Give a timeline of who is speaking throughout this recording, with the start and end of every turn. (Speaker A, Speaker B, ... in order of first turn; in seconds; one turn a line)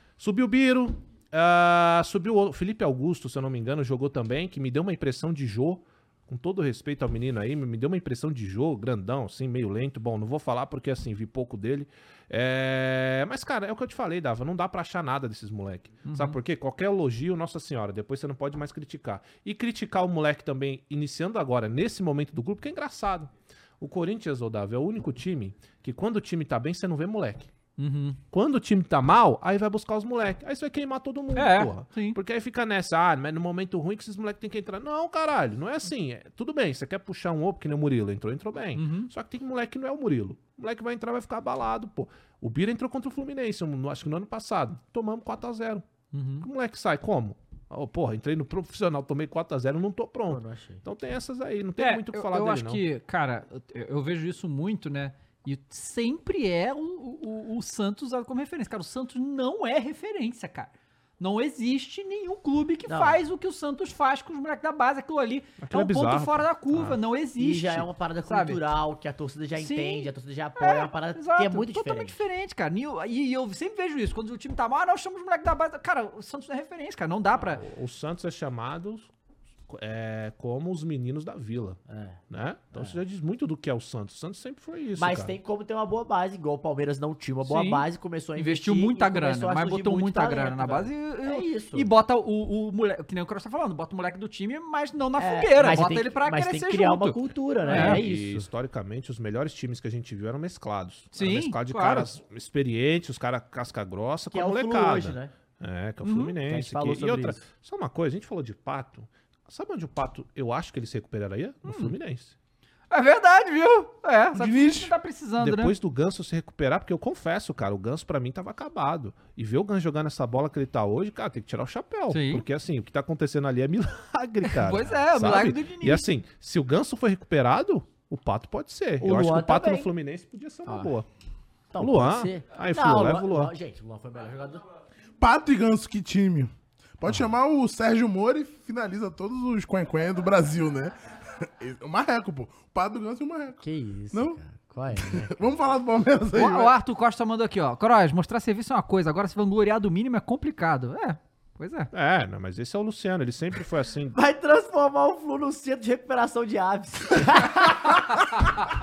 Speaker A: 0.2-27.5
Speaker B: 16.1-16.4
Speaker B: 27.8-28.2
Speaker A: 28.3-45.8
Speaker B: 31.3-32.2
Speaker B: 38.7-39.1
Speaker B: 46.1-46.5
Speaker A: 46.4-52.8
Speaker C: 50.3-50.8
Speaker B: 51.8-68.6
Speaker C: 62.9-63.2
Speaker A: 65.6-67.0
Speaker C: 67.4-72.2
Speaker B: 69.6-77.6
Speaker A: 77.5-79.1
Speaker A: 79.7-81.8
Speaker C: 81.9-82.2
Speaker A: 82.3-85.3
Speaker C: 85.0-91.9
Speaker B: 87.4-98.0
Speaker C: 95.2-98.5
Speaker A: 97.7-112.3
Speaker B: 101.1-102.1
Speaker C: 104.3-105.3
Speaker B: 106.0-106.3
Speaker C: 106.5-107.4
Speaker B: 111.6-111.9
Speaker B: 112.9-115.7
Speaker D: 114.3-114.9
Speaker A: 115.4-131.1
Speaker B: 122.1-122.4
Speaker B: 124.4-126.1
Speaker C: 129.0-129.9
Speaker C: 131.7-134.6
Speaker A: 131.8-133.5
Speaker D: 135.2-144.4
Speaker C: 143.6-145.3
Speaker D: 145.0-146.7
Speaker B: 146.3-151.9
Speaker A: 151.9-154.2
Speaker C: 154.1-158.1